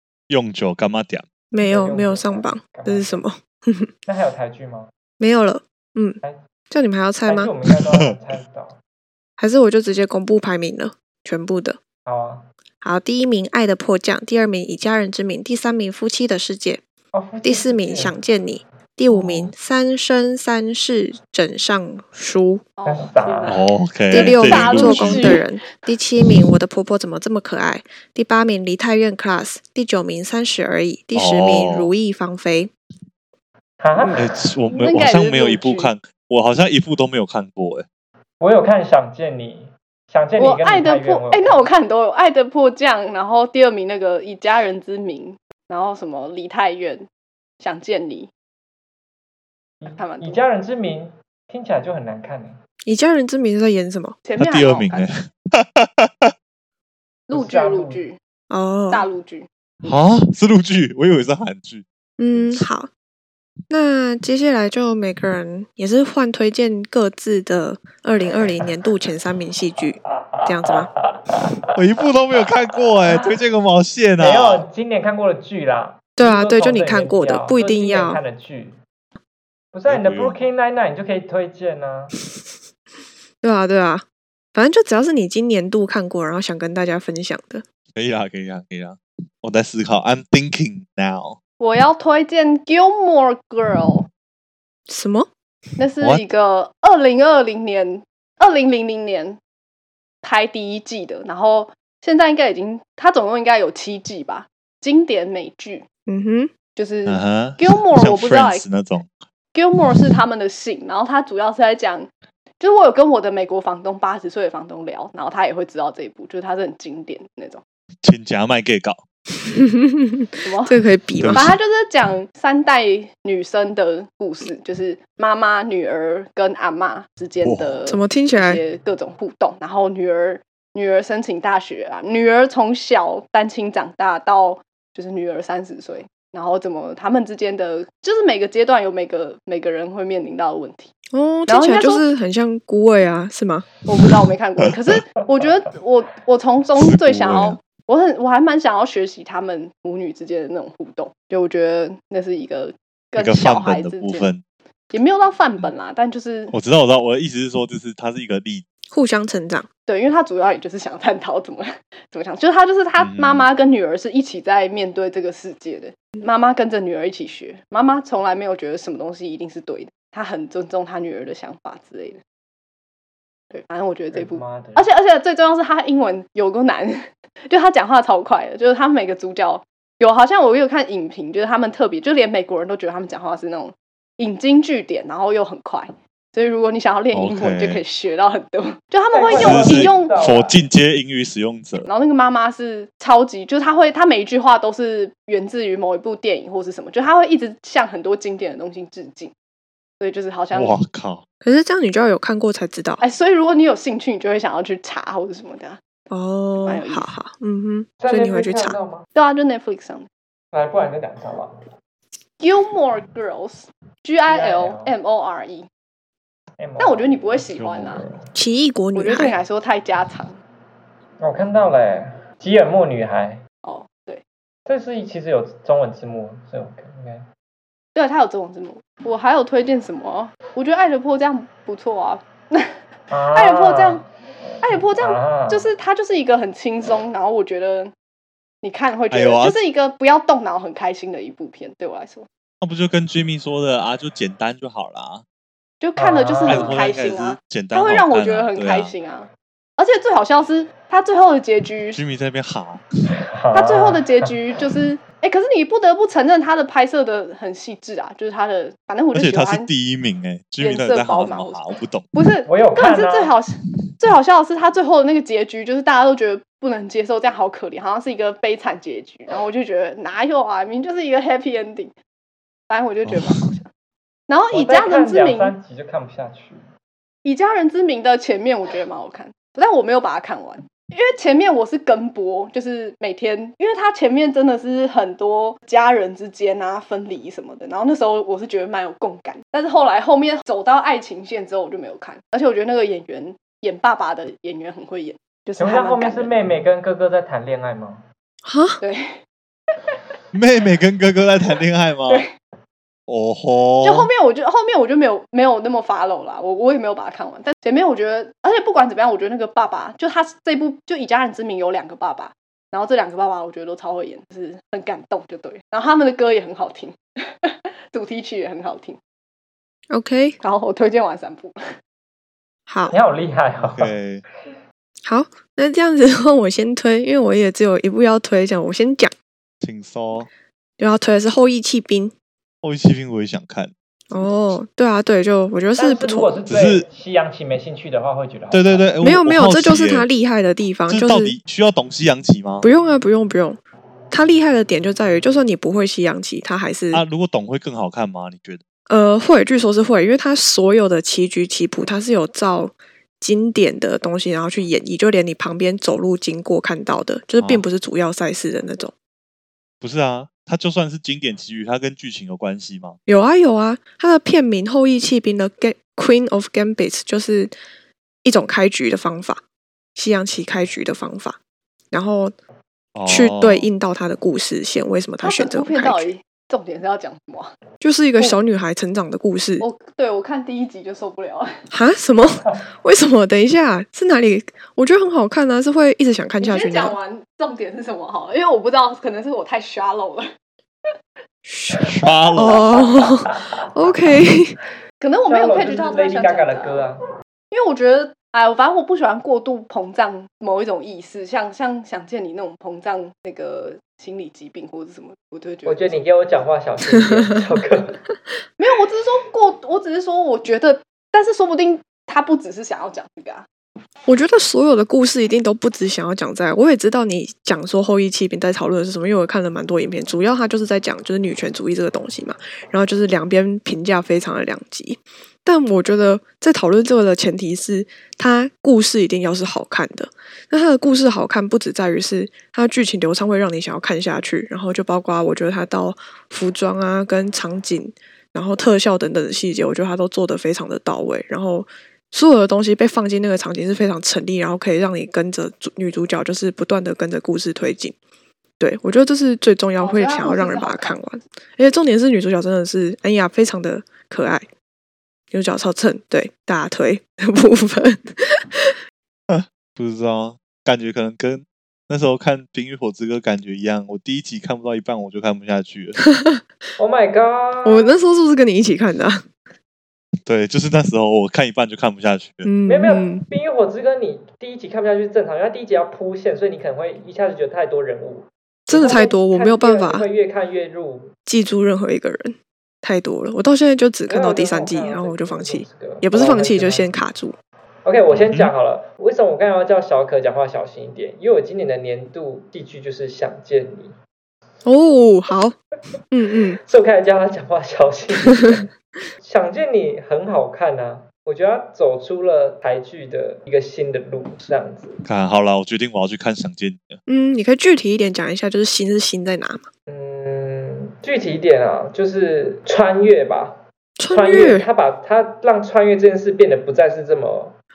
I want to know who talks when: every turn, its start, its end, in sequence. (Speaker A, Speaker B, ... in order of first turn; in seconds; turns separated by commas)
Speaker A: 0.3-1.2, Speaker B: 1.5-3.9, Speaker C: 1.6-3.2, Speaker C: 4.0-4.9, Speaker B: 5.2-6.2, Speaker B: 6.7-7.5, Speaker C: 7.2-8.8, Speaker B: 9.4-11.8, Speaker C: 12.1-12.5, Speaker B: 12.8-16.8, Speaker C: 17.1-18.2, Speaker B: 17.4-22.6, Speaker C: 19.1-19.5, Speaker D: 22.8-25.4, Speaker C: 22.9-23.6, Speaker A: 23.5-25.4, Speaker B: 24.1-32.7, Speaker A: 31.1-31.9, Speaker C: 33.8-34.2, Speaker A: 34.1-37.9, Speaker D: 34.7-35.9, Speaker C: 38.4-41.7, Speaker D: 40.4-47.1, Speaker D: 47.6-48.3, Speaker C: 49.8-52.6, Speaker D: 50.0-50.4, Speaker B: 52.8-54.2, Speaker D: 54.2-55.1, Speaker A: 54.4-56.3, Speaker D: 57.3-58.2, Speaker C: 57.3-58.0, Speaker B: 58.5-59.0, Speaker D: 58.9-60.0, Speaker A: 59.8-62.6, Speaker B: 62.2-62.9, Speaker B: 63.7-70.9, Speaker C: 70.4-71.5, Speaker A: 71.7-74.7, Speaker C: 74.2-78.8, Speaker B: 76.2-78.2, Speaker C: 79.7-82.1, Speaker A: 79.9-80.5, Speaker B: 83.4-87.6, Speaker A: 87.9-91.4, Speaker D: 91.6-94.1, Speaker B: 94.9-95.3, Speaker D: 95.8-99.4, Speaker D: 100.2-105.8, Speaker B: 106.1-106.5, Speaker D: 106.8-108.6, Speaker A: 107.0-109.1, Speaker D: 109.5-117.6, Speaker A: 118.0-119.0, Speaker B: 119.5-121.5, Speaker D: 120.4-140.9, Speaker A: 121.2-121.6, Speaker A: 127.4-127.8, Speaker B: 127.9-128.6, Speaker B: 141.1-143.7, Speaker D: 141.5-142.1, Speaker D: 143.9-154.3, Speaker A: 146.8-147.6, Speaker A: 153.2-154.4, Speaker D: 154.9-156.5, Speaker A: 156.5-158.6, Speaker B: 158.9-159.7, Speaker D: 159.9-172.2, Speaker A: 163.0-163.5, Speaker D: 173.5-190.3, Speaker C: 174.1-174.9, Speaker A: 187.1-187.8, Speaker C: 189.1-190.6, Speaker A: 189.3-191.9, Speaker D: 191.8-199.3, Speaker D: 200.0-200.8, Speaker A: 200.5-201.2, Speaker B: 201.4-203.0, Speaker D: 203.0-205.8, Speaker B: 206.1-208.8, Speaker D: 206.7-207.1, Speaker C: 208.0-209.1, Speaker D: 209.1-210.1, Speaker C: 210.5-211.6, Speaker D: 212.4-215.7, Speaker C: 214.3-214.9, Speaker C: 216.6-218.3, Speaker D: 216.8-218.0, Speaker A: 217.5-218.2, Speaker B: 218.3-219.3, Speaker D: 218.9-220.4, Speaker C: 221.2-223.4, Speaker D: 223.6-224.2, Speaker C: 224.7-227.2, Speaker D: 227.9-232.7, Speaker C: 233.1-234.1, Speaker D: 233.3-234.0, Speaker C: 234.6-235.7, Speaker D: 234.6-237.9, Speaker D: 238.6-242.3, Speaker A: 239.1-239.6, Speaker A: 242.6-245.2, Speaker D: 245.8-252.0, Speaker C: 246.0-246.8, Speaker A: 246.4-248.9, Speaker A: 251.9-252.8, Speaker C: 253.3-254.3, Speaker D: 253.5-259.7, Speaker A: 259.1-262.1, Speaker D: 260.6-271.9, Speaker C: 262.5-263.3, Speaker D: 272.7-273.7, Speaker A: 273.1-273.4, Speaker D: 274.3-275.5, Speaker C: 274.5-276.6, Speaker D: 277.2-296.4, Speaker C: 295.6-298.0, Speaker B: 298.4-298.8, Speaker D: 298.8-299.2, Speaker A: 300.3-302.2, Speaker D: 302.1-302.3, Speaker A: 303.1-304.1, Speaker D: 303.8-319.0, Speaker B: 319.9-320.4, Speaker D: 320.4-321.6, Speaker B: 322.7-322.9, Speaker C: 322.9-323.9, Speaker A: 323.6-324.2, Speaker B: 325.0-329.1, Speaker A: 329.6-330.3, Speaker B: 330.8-332.1, Speaker A: 332.6-333.7, Speaker B: 334.1-336.4, Speaker C: 335.8-338.9, Speaker A: 336.5-336.9, Speaker A: 338.5-340.1, Speaker B: 339.0-341.4, Speaker A: 340.9-342.7, Speaker B: 342.6-347.0, Speaker A: 346.9-348.6, Speaker B: 348.9-358.9, Speaker A: 357.4-357.6, Speaker A: 359.8-363.0, Speaker B: 363.1-367.5, Speaker B: 368.2-369.4, Speaker B: 369.9-371.4, Speaker B: 371.9-372.3, Speaker A: 372.9-373.7, Speaker B: 373.1-376.1, Speaker D: 375.2-377.5, Speaker B: 377.8-379.6, Speaker D: 379.6-381.5, Speaker B: 381.7-386.9, Speaker D: 386.4-390.3, Speaker B: 391.4-394.6, Speaker A: 392.0-392.7, Speaker D: 395.0-396.8, Speaker C: 395.3-397.0, Speaker D: 397.5-406.0, Speaker C: 405.6-408.0, Speaker D: 408.6-413.5, Speaker B: 414.1-447.9, Speaker B: 448.6-454.4, Speaker D: 449.8-451.0, Speaker B: 455.3-458.8, Speaker A: 459.3-466.0, Speaker B: 466.0-466.4, Speaker C: 466.8-467.9, Speaker B: 467.6-469.2, Speaker A: 470.2-472.5, Speaker B: 472.4-473.2, Speaker C: 472.7-481.1, Speaker B: 478.7-480.1, Speaker B: 481.3-487.3, Speaker C: 484.1-486.9, Speaker C: 487.8-493.9, Speaker A: 488.1-488.5, Speaker B: 494.6-495.5, Speaker B: 496.1-496.6, Speaker C: 496.6-498.7, Speaker B: 498.3-498.6, Speaker C: 499.2-505.0, Speaker A: 505.1-507.0, Speaker B: 507.1-509.6, Speaker C: 509.9-517.5, Speaker B: 514.0-514.7